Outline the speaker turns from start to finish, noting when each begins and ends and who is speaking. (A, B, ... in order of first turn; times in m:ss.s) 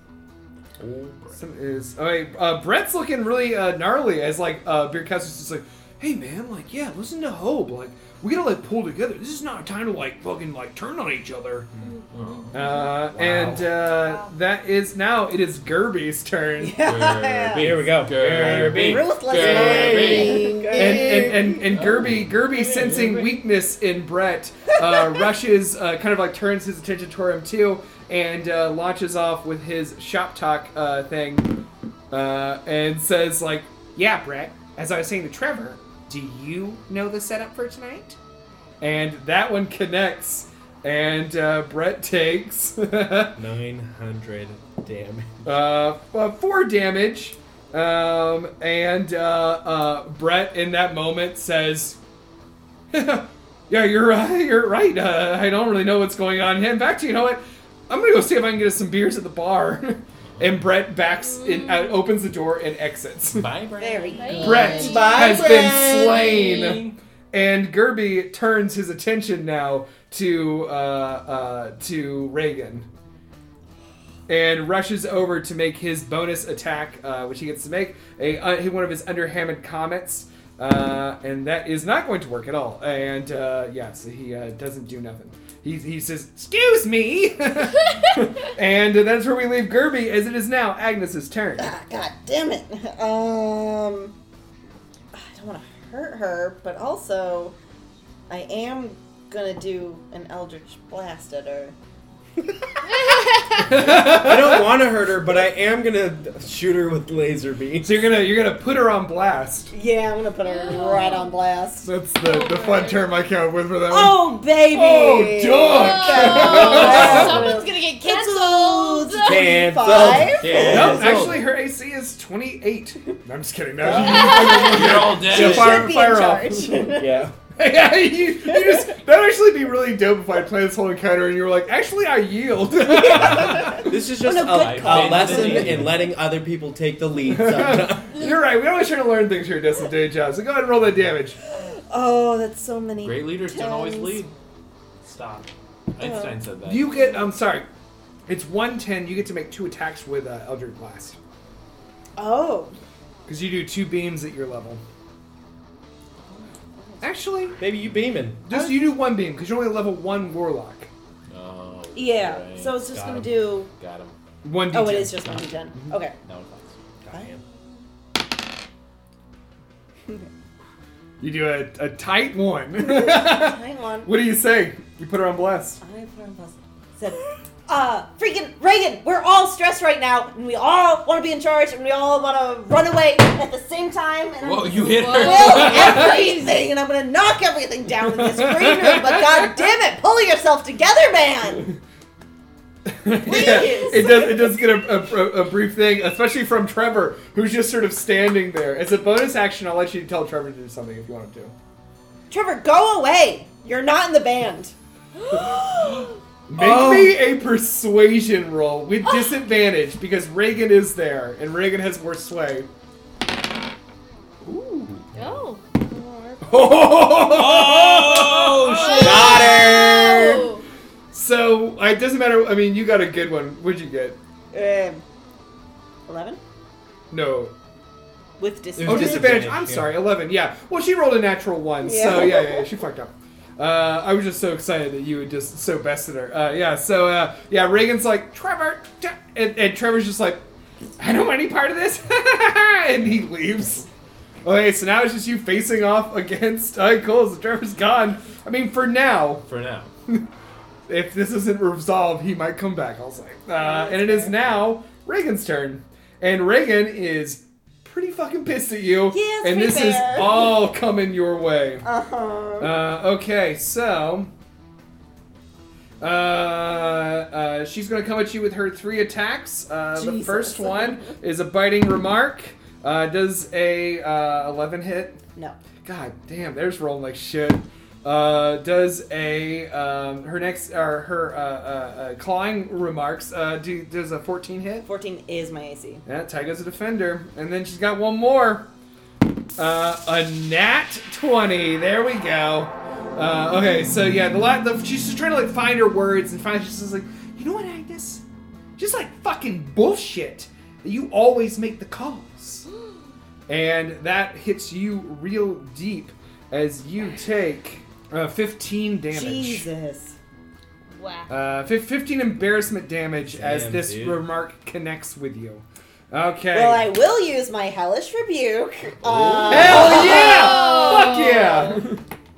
0:00.8-0:01.4 A
0:01.3-0:11.7 B
0:12.1-0:12.5 A
0:12.2-0:13.0 C
0:12.5-0:16.8 B
0:13.1-0:13.8 D
0:16.6-0:17.7 E
0:16.8-0:20.5 A
0:17.5-0:21.8 D
0:18.3-0:21.3 E
0:20.7-0:31.5 B
0:21.7-0:23.4 A
0:24.8-0:25.1 E
0:32.1-0:38.2 B
0:38.8-0:43.4 B
0:43.4-0:45.4 D
0:45.4-0:52.0 B
0:52.9-1:03.5 B
1:01.3-1:02.0 C
1:03.3-1:04.6 A
1:03.8-1:05.8 E
1:04.1-1:05.4 C
1:04.4-1:12.9 B
1:04.8-1:06.3 D
1:05.8-1:06.9 A
1:14.3-1:31.7 B
1:31.6-1:34.1 E
1:35.1-1:37.5 E
1:38.3-1:41.7 E
1:42.8-1:43.8 C
1:43.6-1:44.7 B
1:43.8-1:48.0 D
1:47.8-1:49.7 B
1:49.7-1:51.9 E
1:50.4-1:51.3 C
1:51.8-1:57.4 B
1:52.2-1:53.2 C
1:53.9-2:01.4 E
1:55.7-1:59.5 C
1:56.8-1:57.3 A
1:59.2-2:01.0 D
2:00.4-2:01.4 A
2:00.6-2:06.8 B
2:03.8-2:07.2 E
2:04.1-2:04.6 C
2:04.5-2:05.9 A
2:06.8-2:07.4 D
2:07.5-2:13.9 B
2:12.9-2:15.9 E
2:13.8-2:18.2 D
2:14.5-2:16.0 A
2:17.2-2:21.4 B
2:21.6-2:24.2 E
2:23.0-2:24.3 A
2:25.0-2:27.0 A
2:26.0-2:26.5 E
2:26.6-2:27.6 B
2:28.3-2:31.2 B
2:32.2-2:32.7 E
2:33.3-2:34.8 B
2:36.3-2:37.2 E
2:37.0-2:37.6 B
2:37.6-2:38.4 D
2:38.4-2:40.9 B
2:38.5-2:38.9 E
2:41.3-2:44.1 A
2:41.9-2:43.7 E
2:43.0-2:43.3 D
2:44.4-2:45.9 B
2:44.7-2:46.1 E
2:46.2-2:46.7 A
2:47.0-2:47.4 D
2:51.2-2:55.8 B
2:52.8-2:54.1 E
2:55.8-3:11.7 E
3:04.4-3:06.0 A
3:04.8-3:06.7 C
3:08.0-3:09.7 B
3:12.9-3:21.5 B
3:13.2-3:14.6 E
3:22.3-3:24.7 E
3:25.2-3:26.0 C
3:26.5-3:32.7 B
3:26.6-3:27.1 D
3:34.4-3:35.4 A
3:35.1-3:36.8 C
3:36.4-3:39.3 B
3:37.1-3:39.5 A
3:38.6-3:40.6 C
3:39.0-3:40.5 D
3:41.1-3:44.2 B
3:44.5-3:45.0 E
3:46.1-3:46.4 E
3:47.1-3:47.5 B
3:48.4-3:49.4 E
3:48.8-3:50.0 D
3:48.8-4:00.4 B
3:51.8-3:52.7 E
4:01.0-4:03.9 B
4:04.4-4:09.4 B
4:09.4-4:09.9 A
4:10.9-4:21.8 B
4:13.5-4:14.4 E
4:19.1-4:20.6 E
4:21.8-4:22.8 E
4:22.6-4:24.3 B
4:26.0-4:35.2 B
4:29.9-4:31.1 E
4:35.8-4:44.9 B
4:44.8-4:46.0 E
4:46.0-4:48.7 B
4:49.6-4:58.2 B
4:58.8-5:02.6 B
5:03.5-5:09.7 B
5:09.1-5:10.2 E
5:10.9-5:11.3 C
5:11.3-5:16.9 B
5:13.3-5:14.2 D
5:16.5-5:20.5 E
5:19.0-5:20.3 A
5:19.5-5:22.0 B
5:20.0-5:21.8 C